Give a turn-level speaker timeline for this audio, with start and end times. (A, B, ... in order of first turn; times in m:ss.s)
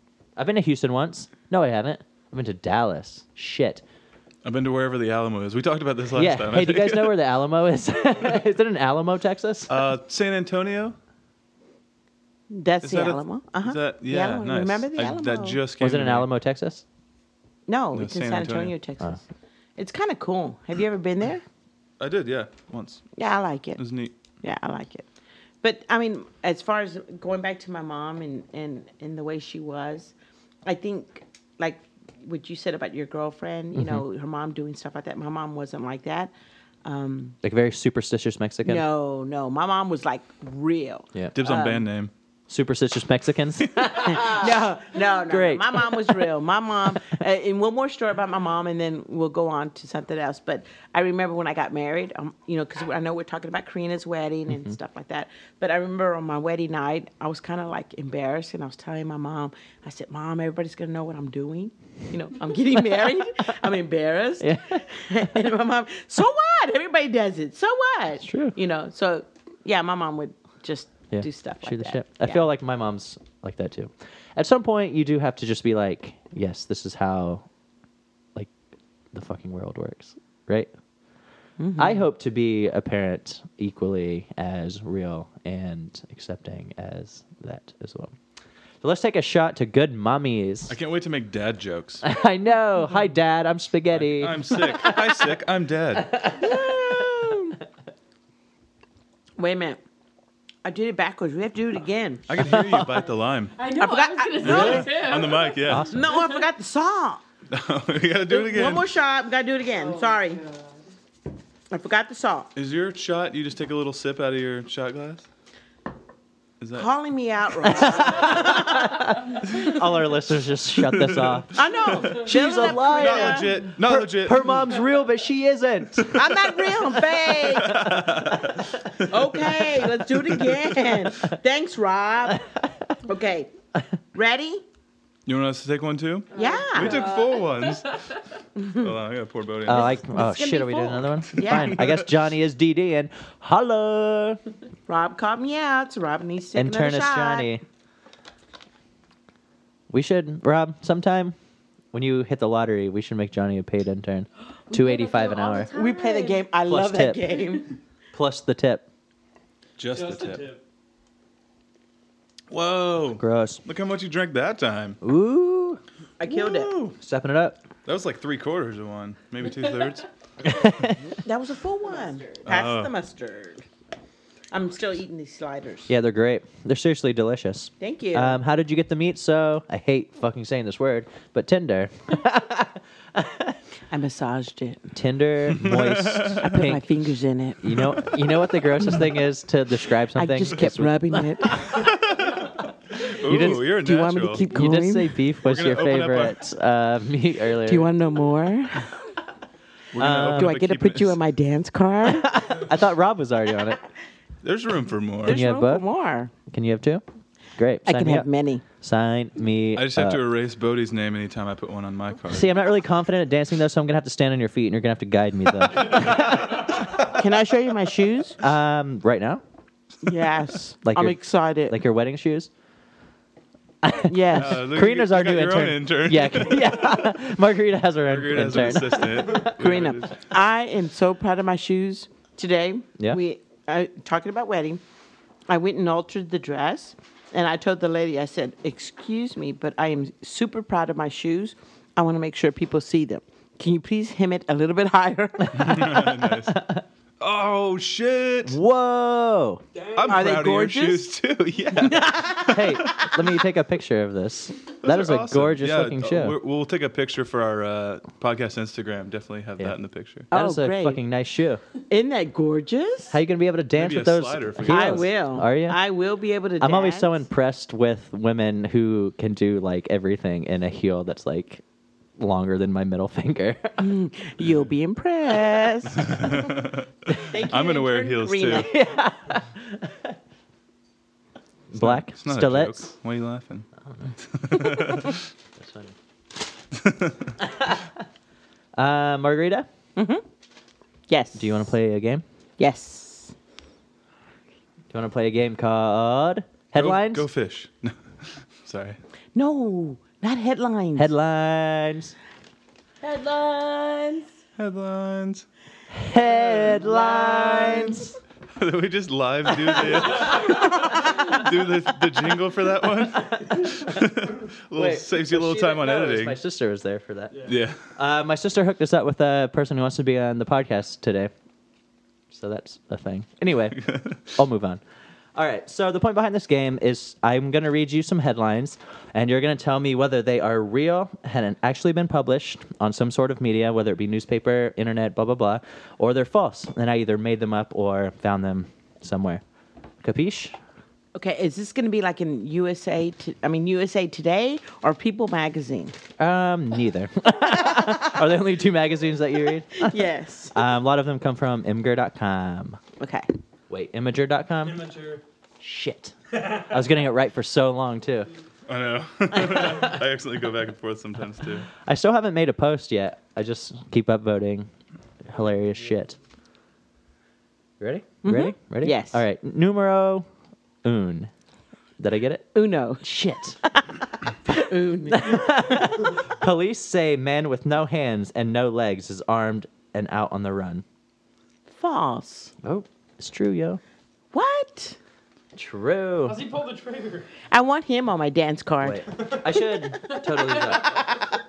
0:00.4-0:03.8 A
0:04.4-0:07.2 B
0:06.1-0:09.8 A
0:09.7-0:11.0 B
0:12.5-0:15.6 C
0:12.8-0:16.3 B
0:15.8-0:16.8 A
0:17.7-0:19.2 C
0:17.9-0:18.7 B
0:19.8-0:21.4 C
0:22.0-0:23.1 B
0:23.2-0:23.8 C
0:23.8-0:24.1 B
0:24.4-0:25.0 C
0:25.6-0:30.1 C
0:30.6-0:36.3 C
0:33.7-0:34.0 A
0:36.8-0:37.4 C
0:37.4-0:38.8 A
0:38.6-0:41.8 C
0:41.3-0:42.1 B
0:42.5-0:44.5 A
0:43.8-1:12.4 C
0:45.2-0:46.1 A
1:04.4-1:04.8 A
1:08.2-1:08.6 A
1:11.1-1:17.4 A
1:19.1-1:20.7 A
1:21.6-1:22.0 C
1:21.8-1:28.1 A
1:28.8-1:30.8 A
1:30.7-1:32.0 B
1:32.0-1:35.3 A
1:33.9-1:36.1 B
1:36.0-1:37.1 A
1:36.3-1:37.6 C
1:39.4-1:39.8 C
1:40.6-1:42.2 C
1:42.3-1:43.6 B
1:42.4-1:42.9 A
1:43.6-1:46.2 D
1:43.7-1:45.1 C
1:44.4-1:45.9 B
1:44.4-1:44.8 A
1:45.6-1:46.2 A
1:45.9-1:47.2 C
1:47.5-1:48.9 B
1:48.3-1:50.4 C
1:49.8-1:50.7 D
1:51.7-1:52.5 C
1:52.6-1:55.2 B
1:56.6-1:56.9 B
1:56.7-1:59.1 C
1:57.8-2:06.2 A
2:00.8-2:01.4 B
2:01.5-2:03.6 C
2:02.1-2:04.7 B
2:06.1-2:08.0 C
2:07.4-2:09.2 B
2:07.7-2:08.6 A
2:09.0-2:12.4 C
2:13.0-2:13.5 C
2:14.1-2:14.6 C
2:15.2-2:20.0 B
2:16.3-2:17.8 D
2:16.3-2:17.1 C
2:18.6-2:18.8 C
2:19.6-2:24.4 A
2:19.7-2:21.8 C
2:21.4-2:22.1 B
2:24.9-2:27.5 C
2:26.5-2:27.6 A
2:29.9-2:31.3 A
2:31.9-2:35.7 A
2:34.7-2:36.4 D
2:35.7-2:37.8 C
2:36.6-2:37.4 A
2:38.1-2:38.8 A
2:39.8-2:40.4 B
2:39.9-2:40.6 E
2:42.5-2:45.0 B
2:43.2-2:43.6 A
2:45.0-2:45.8 A
2:46.2-2:46.8 C
2:46.3-2:46.9 B
2:47.0-2:47.6 A
2:47.8-2:50.1 B
2:50.4-2:51.1 A
2:51.1-2:53.6 C
2:52.4-2:52.9 B
2:54.5-2:55.9 C
2:55.9-3:03.6 A
2:57.8-2:58.4 C
3:03.9-3:04.9 C
3:04.9-3:06.8 A
3:05.5-3:06.5 B
3:06.4-3:07.9 C
3:07.6-3:11.6 A
3:10.1-3:11.7 C
3:11.7-3:14.4 B
3:13.2-3:13.7 A
3:13.3-3:15.1 C
3:14.5-3:17.9 A
3:15.4-3:16.4 B
3:17.6-3:18.9 C
3:19.9-3:21.2 B
3:20.0-3:20.5 A
3:20.2-3:22.4 C
3:22.1-3:23.8 A
3:24.4-3:25.4 B
3:25.2-3:25.8 A
3:25.2-3:26.3 C
3:26.5-3:27.0 A
3:27.6-3:28.3 A
3:27.8-3:28.6 C
3:28.8-3:30.2 A
3:29.7-3:32.5 B
3:32.3-3:36.7 A
3:37.0-3:38.4 C
3:38.4-3:39.4 A
3:40.0-3:41.8 C
3:40.8-3:42.5 A
3:43.8-3:49.5 A
3:44.1-3:44.6 C
3:44.4-3:47.0 B
3:48.1-3:50.2 B
3:49.4-3:54.8 C
3:55.5-4:06.0 C
4:05.5-4:06.6 B
4:05.6-4:06.8 A
4:07.2-4:08.6 B
4:08.4-4:09.6 A
4:09.7-4:10.3 E
4:09.9-4:13.2 B
4:10.1-4:11.1 C
4:11.8-4:12.5 C
4:12.5-4:16.4 A
4:14.8-4:20.3 B
4:20.3-4:21.0 C
4:20.3-4:21.6 A
4:21.9-4:23.2 C
4:23.1-4:25.8 A
4:23.8-4:25.1 B
4:24.6-4:27.2 C
4:26.6-4:31.6 A
4:32.2-4:33.9 A
4:33.8-4:36.4 C
4:36.0-4:38.7 B
4:37.2-4:38.8 C
4:38.6-4:40.1 A
4:41.7-4:42.9 A
4:41.7-4:43.7 B
4:43.8-4:45.9 A
4:44.2-4:45.2 B
4:46.7-4:47.3 B
4:47.4-4:47.9 A
4:48.8-4:49.7 A
4:50.0-4:50.2 C
4:51.1-4:51.6 C
4:51.3-4:52.2 A
4:52.6-4:53.3 C
4:54.9-4:57.2 A
4:56.7-4:59.0 B
4:59.3-5:01.1 C
5:01.0-5:02.1 A
5:03.0-5:04.3 D
5:04.6-5:05.4 B
5:05.9-5:08.1 A
5:08.6-5:16.4 B
5:14.7-5:21.3 A
5:17.4-5:17.9 B
5:22.3-5:24.8 A
5:23.8-5:24.2 B
5:25.3-5:39.4 A
5:40.0-5:40.6 A
5:41.1-5:45.9 C
5:46.2-5:50.0 A
5:49.8-5:50.6 C
5:50.5-5:52.8 A
5:53.0-5:53.3 C
5:53.7-5:54.8 A
5:54.6-5:55.2 E
5:55.6-5:58.3 A
5:56.3-5:56.8 E
5:58.7-6:01.7 B
6:01.8-6:04.7 A
6:05.3-6:06.2 A
6:07.8-6:10.3 A
6:08.2-6:09.2 C
6:10.8-6:11.3 A
6:12.0-6:12.5 A
6:12.5-6:13.0 C
6:13.0-6:13.6 A
6:14.5-6:15.8 C
6:15.1-6:20.8 A
6:21.7-6:22.5 C
6:22.6-6:23.8 A
6:24.3-6:25.0 C
6:25.5-6:26.4 A
6:26.2-6:27.3 E
6:27.5-6:29.0 C
6:28.8-6:31.0 A